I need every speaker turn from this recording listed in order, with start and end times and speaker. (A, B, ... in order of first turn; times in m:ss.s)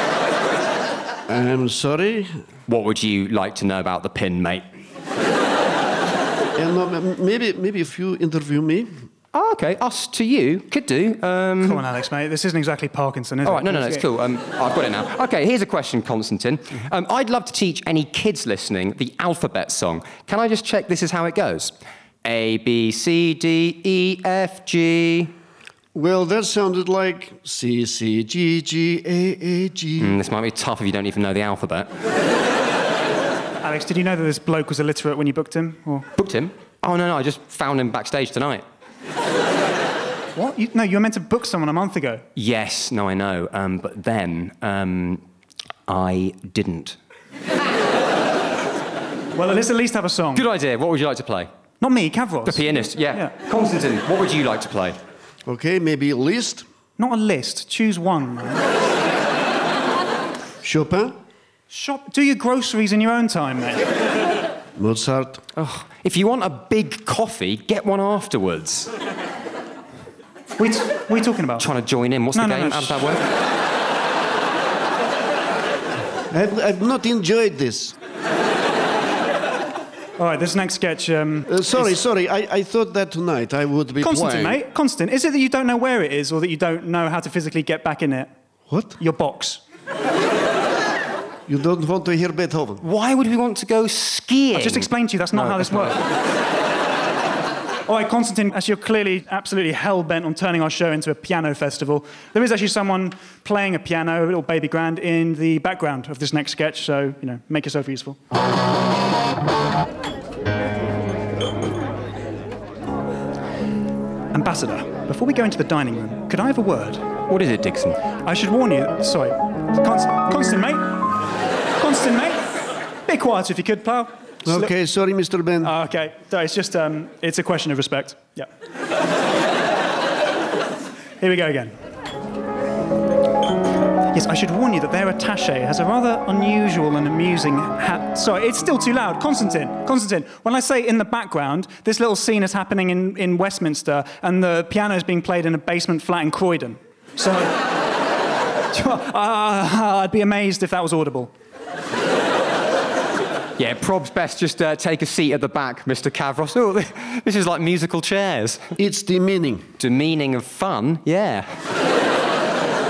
0:01.3-0:02.4 A
0:02.7-0:04.6 B
0:06.6-0:09.0 A
0:09.3-0:11.8 B
0:11.6-0:14.0 C
0:13.4-0:21.7 B
0:22.2-0:25.3 B
0:25.9-0:30.2 A
0:30.0-0:31.9 B
0:33.6-0:36.1 C
0:36.2-0:38.6 B
0:40.4-0:42.2 C
0:42.4-0:45.2 B
0:45.9-0:47.0 B
0:49.4-0:50.5 C
0:50.4-0:51.5 B
0:51.8-0:53.3 C
0:52.5-0:55.0 B
0:55.5-0:56.6 A
0:57.0-0:58.7 C
1:00.6-1:01.2 A
1:01.7-1:03.9 C
1:04.8-1:05.4 A
1:05.6-1:08.9 B
1:10.6-1:11.7 C
1:11.6-1:13.2 B
1:12.3-1:13.0 C
1:16.3-1:18.0 A
1:20.2-1:21.9 C
1:21.5-1:24.6 A
1:24.0-1:28.3 C
1:28.7-1:29.0 A
1:29.0-1:29.6 C
1:31.5-1:32.8 A
1:32.8-1:36.0 B
1:34.6-1:36.0 C
1:37.9-1:48.2 C
1:54.3-1:57.1 C
1:57.3-1:58.0 B
1:58.2-2:01.0 C
2:01.8-2:02.5 C
2:03.1-2:04.7 C
2:04.4-2:05.7 A
2:05.6-2:08.5 C
2:11.2-2:11.7 C
2:14.1-2:27.6 C
2:28.7-2:31.3 C
2:33.6-2:38.7 B
2:38.8-2:39.7 A
2:39.8-2:41.6 B